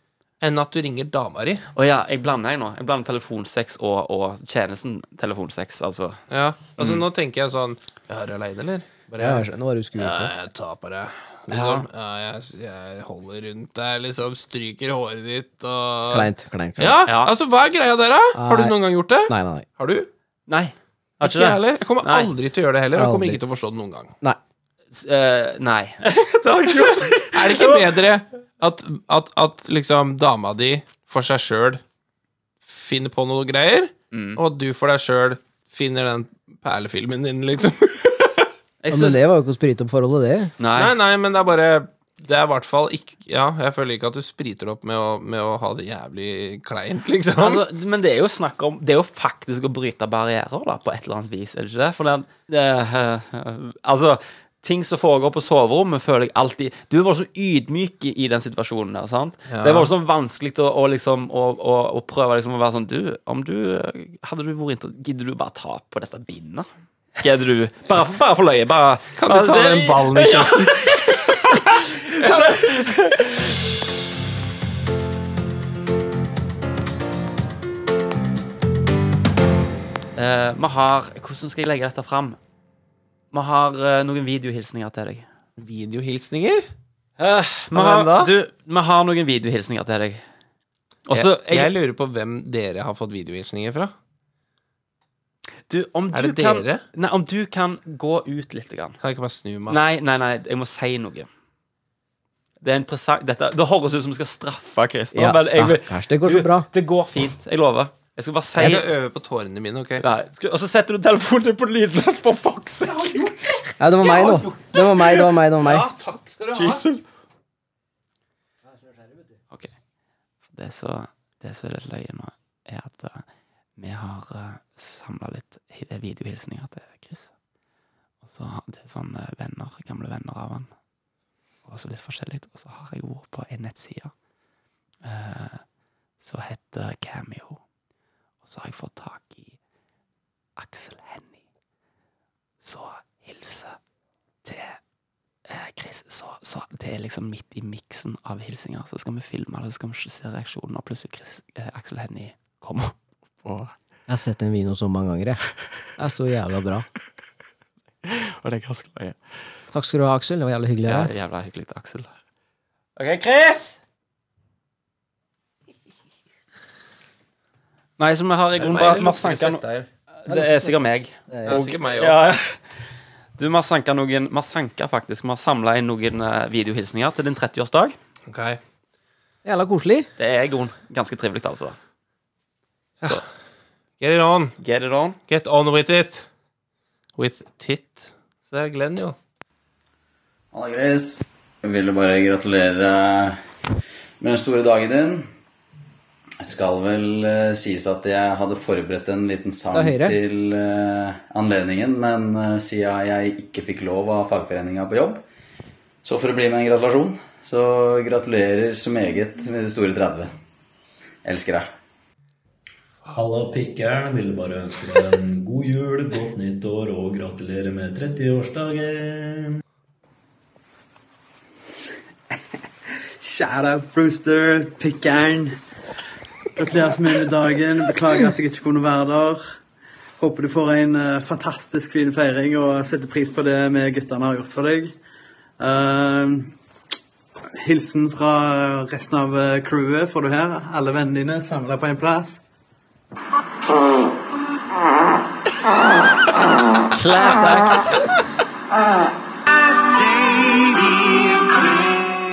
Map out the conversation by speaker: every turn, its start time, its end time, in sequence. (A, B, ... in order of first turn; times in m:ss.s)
0:00.4-0:01.6 A
0:01.8-0:06.2 B
0:06.3-0:20.1 A
0:06.8-0:07.0 B
0:09.2-0:10.3 C
0:11.5-0:11.9 B
0:16.1-0:17.1 C
0:17.1-0:17.3 B
0:18.4-0:19.7 C
0:20.5-0:22.3 B
0:21.2-0:24.1 A
0:23.0-0:23.4 C
0:24.9-0:27.9 B
0:27.3-0:31.8 A
0:32.6-0:38.5 A
0:34.1-0:34.4 B
0:38.8-0:39.2 B
0:38.9-0:40.5 C
0:40.6-0:41.0 B
0:40.8-0:47.6 A
0:47.4-1:06.7 B
0:59.5-0:59.9 A
1:07.2-1:13.5 B
1:09.2-1:12.9 A
1:20.2-1:22.4 B
1:23.3-1:25.2 B
1:25.6-1:26.7 A
1:27.2-1:30.2 B
1:27.7-1:28.3 A
1:31.1-1:31.7 B
1:31.1-1:33.9 A
1:35.7-1:39.0 B
1:36.1-1:36.8 A
1:39.0-1:39.8 A
1:39.7-1:41.3 B
1:42.6-1:48.8 B
1:45.1-1:46.7 C
1:48.6-1:50.0 A
1:50.0-1:55.2 B
1:53.8-1:55.8 C
1:55.6-1:56.8 A
1:55.8-1:57.0 B
2:00.5-2:03.2 B
2:03.8-2:07.3 B
2:08.2-2:10.7 B
2:11.7-2:14.1 B
2:15.0-2:15.6 B
2:16.2-2:17.6 B
2:18.4-2:19.6 B
2:20.6-2:21.4 B
2:22.6-2:23.8 B
2:24.4-2:24.8 B
2:25.5-2:33.7 B
2:34.1-2:35.4 C
2:36.0-2:36.9 C
2:38.0-2:39.2 B
2:39.7-2:41.1 C
2:40.8-2:42.1 B
2:43.0-2:43.8 B
2:48.0-2:49.6 B
2:48.6-2:49.9 A
2:50.2-2:52.6 B
2:50.3-2:50.6 C
2:51.3-2:51.6 C
2:51.5-2:52.2 A
2:53.4-2:58.0 B
2:58.3-2:58.6 A
2:59.4-3:00.1 C
3:00.2-3:01.8 B
3:04.0-3:04.6 A
3:04.6-3:05.2 B
3:05.3-3:06.3 A
3:07.2-3:09.2 A
3:10.5-3:13.4 D
3:14.2-3:15.2 D
3:16.4-3:25.2 D
3:19.7-3:20.2 C
3:26.0-3:30.3 D
3:31.2-3:31.7 D
3:33.1-3:39.6 E
3:43.2-3:45.6 F
3:46.6-3:49.4 F
3:50.2-3:54.9 F
3:55.6-3:56.5 F
3:57.6-4:02.4 F
4:06.9-4:08.0 B